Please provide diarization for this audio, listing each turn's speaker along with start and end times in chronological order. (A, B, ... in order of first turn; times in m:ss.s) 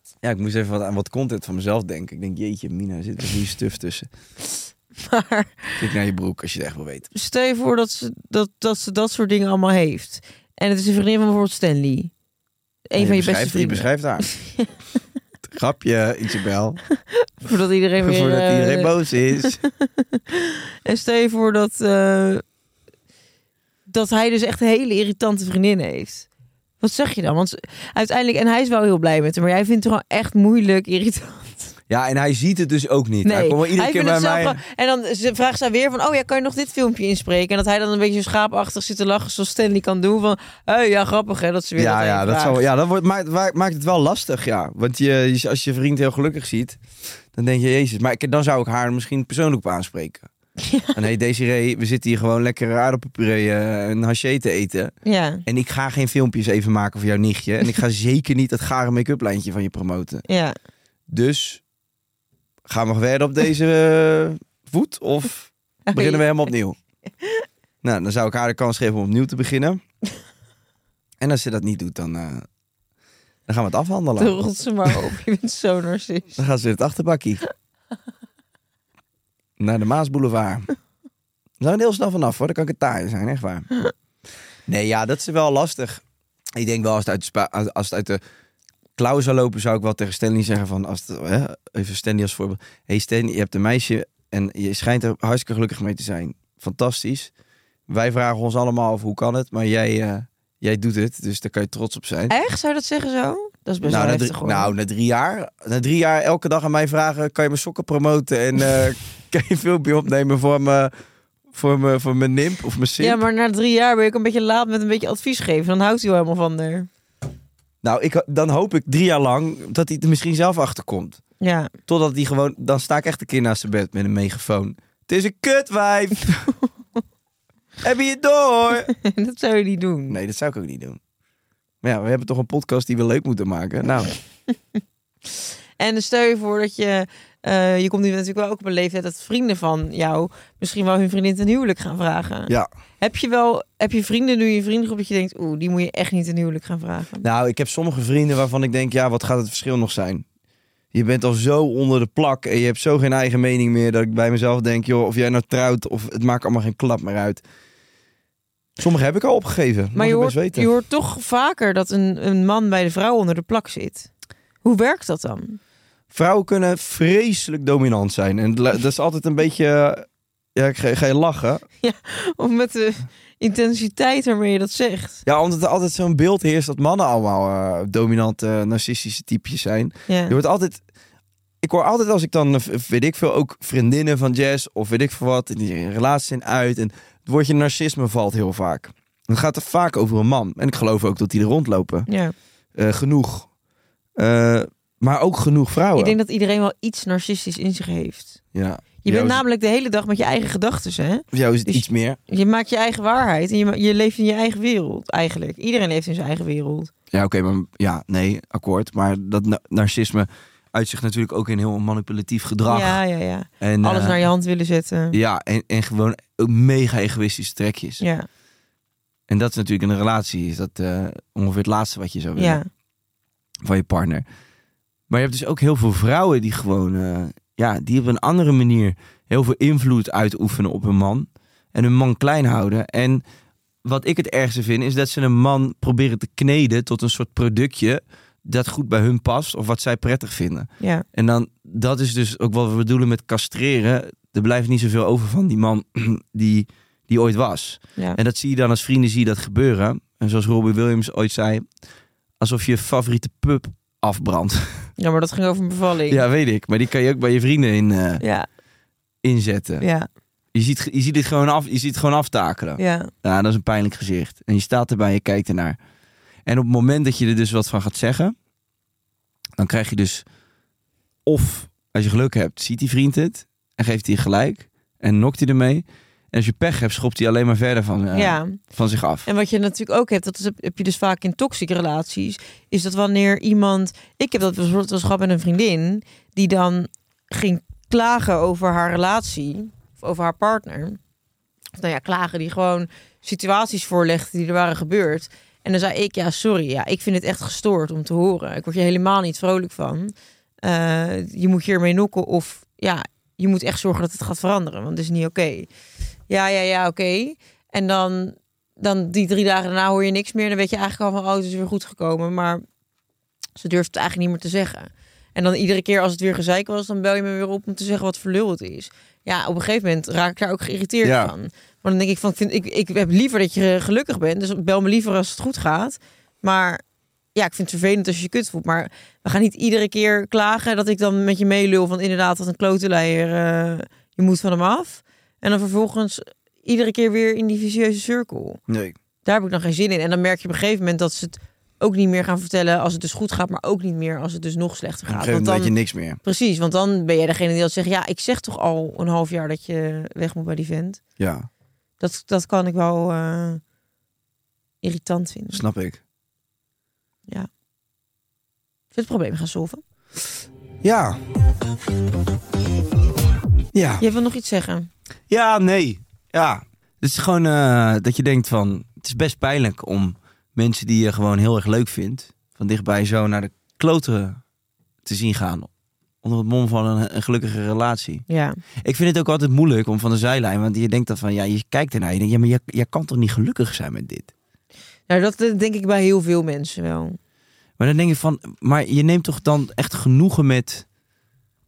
0:00.2-0:04.1 A
0:05.0-0:05.8 B
0:05.8-0:07.1 A
0:07.1-0:12.1 B
0:12.9-0:14.7 B
0:13.0-0:14.3 A
0:15.5-0:16.8 A
0:17.2-0:22.4 B
0:18.0-0:19.6 A
0:23.9-0:26.3 B
0:26.8-0:31.7 B
0:31.9-0:34.6 A
0:33.2-0:42.6 B
0:41.8-0:46.8 A
0:47.3-0:50.3 A
0:50.6-0:51.0 B
0:50.9-0:54.9 A
0:55.0-0:55.4 B
0:55.4-1:00.2 A
1:00.3-1:00.5 B
1:01.1-1:01.6 A
1:02.7-1:06.8 A
1:05.9-1:06.2 B
1:07.8-1:09.8 A
1:11.2-1:12.5 A
1:13.5-1:14.4 A
1:14.2-1:16.4 B
1:16.4-1:17.4 A
1:19.6-1:20.7 A
1:21.6-1:23.7 A
1:24.7-1:26.0 A
1:26.6-1:28.2 A
1:29.0-1:37.3 A
1:37.9-1:42.3 A
1:42.3-1:44.7 B
1:43.8-1:50.9 A
1:51.5-1:53.2 A
1:53.0-1:56.9 B
1:57.8-2:01.2 A
2:01.4-2:01.7 B
2:01.9-2:06.5 A
2:07.8-2:08.9 A
2:08.9-2:10.2 B
2:10.1-2:11.0 A
2:11.8-2:14.1 A
2:15.8-2:27.2 B
2:27.2-2:30.2 A
2:30.9-2:37.4 A
2:38.8-2:40.7 A
2:39.9-2:44.1 B
2:44.6-2:45.6 B
2:46.1-2:51.6 A
2:51.8-2:55.2 B
2:55.2-3:00.8 A
3:00.1-3:00.4 B
3:01.6-3:12.1 A
3:12.1-3:12.3 B
3:12.7-3:13.5 A
3:14.2-3:16.2 A
3:16.0-3:18.4 B
3:18.5-3:19.4 A
3:19.0-3:26.9 B
3:21.3-3:22.2 A
3:27.1-3:33.0 A
3:32.7-3:35.2 B
3:33.6-3:34.2 A
3:35.1-3:38.0 A
3:38.0-3:38.3 B
3:39.3-3:42.6 A
3:42.4-3:42.7 B
3:43.6-3:44.2 A
3:45.1-3:53.2 A
3:53.8-4:11.6 A
4:12.4-4:14.9 A
4:15.0-4:16.2 B
4:16.1-4:18.2 A
4:18.2-4:18.5 B
4:19.2-4:19.8 A
4:19.8-4:20.1 B
4:20.5-4:25.8 A
4:22.8-4:23.1 B
4:26.4-4:28.3 A
4:29.6-4:30.2 A
4:31.2-4:39.3 A
4:38.1-4:38.6 B
4:39.2-4:51.0 B
4:51.8-5:05.7 B
5:06.3-5:12.6 B
5:13.6-5:26.8 B
5:21.0-5:21.3 A
5:27.3-5:38.6 B
5:38.7-5:38.9 A
5:39.2-5:51.0 B
5:45.1-5:46.2 A
5:51.2-5:51.5 A
5:52.0-5:53.6 B
5:54.8-5:55.6 B
5:55.5-5:56.0 A
5:58.9-5:59.8 B
6:00.8-6:01.2 A
6:03.7-6:04.0 A
6:04.0-6:04.9 B
6:05.3-6:14.4 A
6:15.0-6:15.7 A
6:16.2-6:18.2 A
6:18.3-6:18.6 B
6:18.8-6:24.3 A
6:25.1-6:27.2 B
6:27.8-6:30.8 A